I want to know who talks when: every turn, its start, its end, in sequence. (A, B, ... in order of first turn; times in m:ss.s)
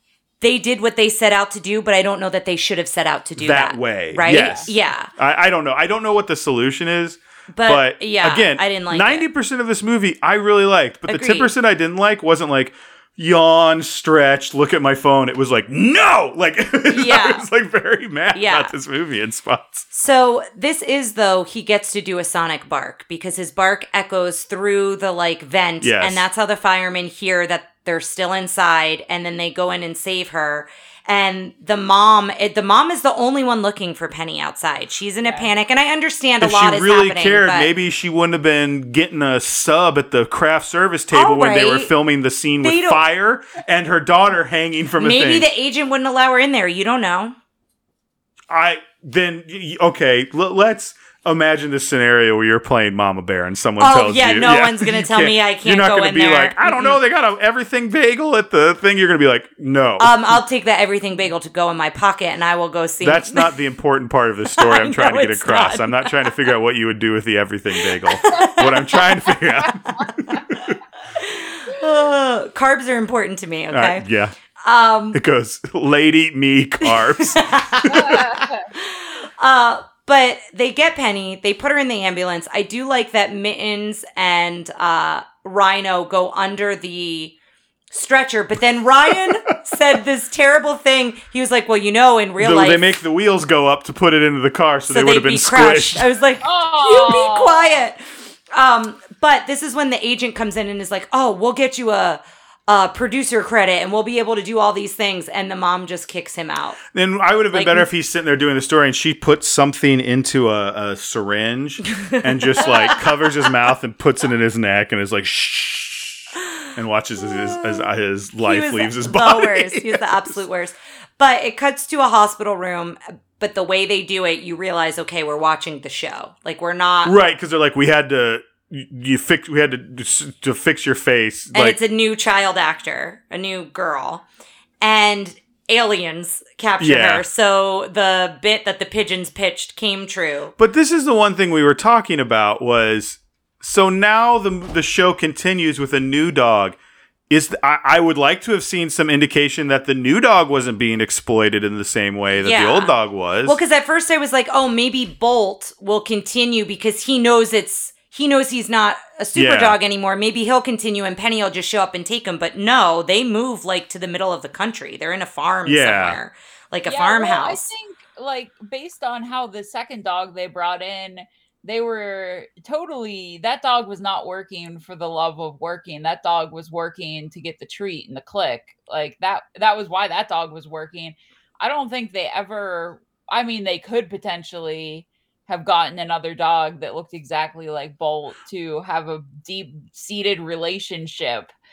0:00.4-0:05.1 A
0:03.4-0:19.9 B
0:04.3-0:04.7 C
0:07.5-0:09.2 A
0:11.1-0:11.5 A
0:16.9-0:17.4 A
0:18.3-0:18.7 A
0:19.9-0:37.7 A
0:25.8-0:26.2 B
0:35.2-0:35.5 C
0:36.4-0:45.5 B
0:41.1-0:41.9 A
0:42.6-0:43.0 A
0:45.0-0:47.4 A
0:48.5-1:00.4 B
0:53.8-0:57.0 A
1:00.0-1:03.5 A
1:03.0-1:10.8 B
1:04.5-1:06.3 A
1:08.0-1:09.0 A
1:11.1-1:14.0 A
1:13.7-1:14.4 B
1:14.6-1:15.2 A
1:15.1-1:18.5 B
1:16.9-1:27.4 A
1:17.9-1:18.7 C
1:27.9-1:32.9 A
1:29.1-1:29.7 B
1:32.4-1:36.2 B
1:34.9-1:46.8 A
1:36.4-1:37.8 C
1:46.9-2:00.4 B
1:47.5-1:47.9 A
1:52.0-1:53.0 A
1:58.4-2:07.1 A
2:07.0-2:11.8 B
2:11.5-2:14.2 A
2:14.8-2:20.5 A
2:16.8-2:17.2 B
2:20.6-2:26.8 B
2:27.3-2:33.6 B
2:32.4-2:32.9 A
2:33.4-2:47.7 A
2:39.4-2:39.8 B
2:45.6-2:46.2 B
2:46.9-3:11.5 C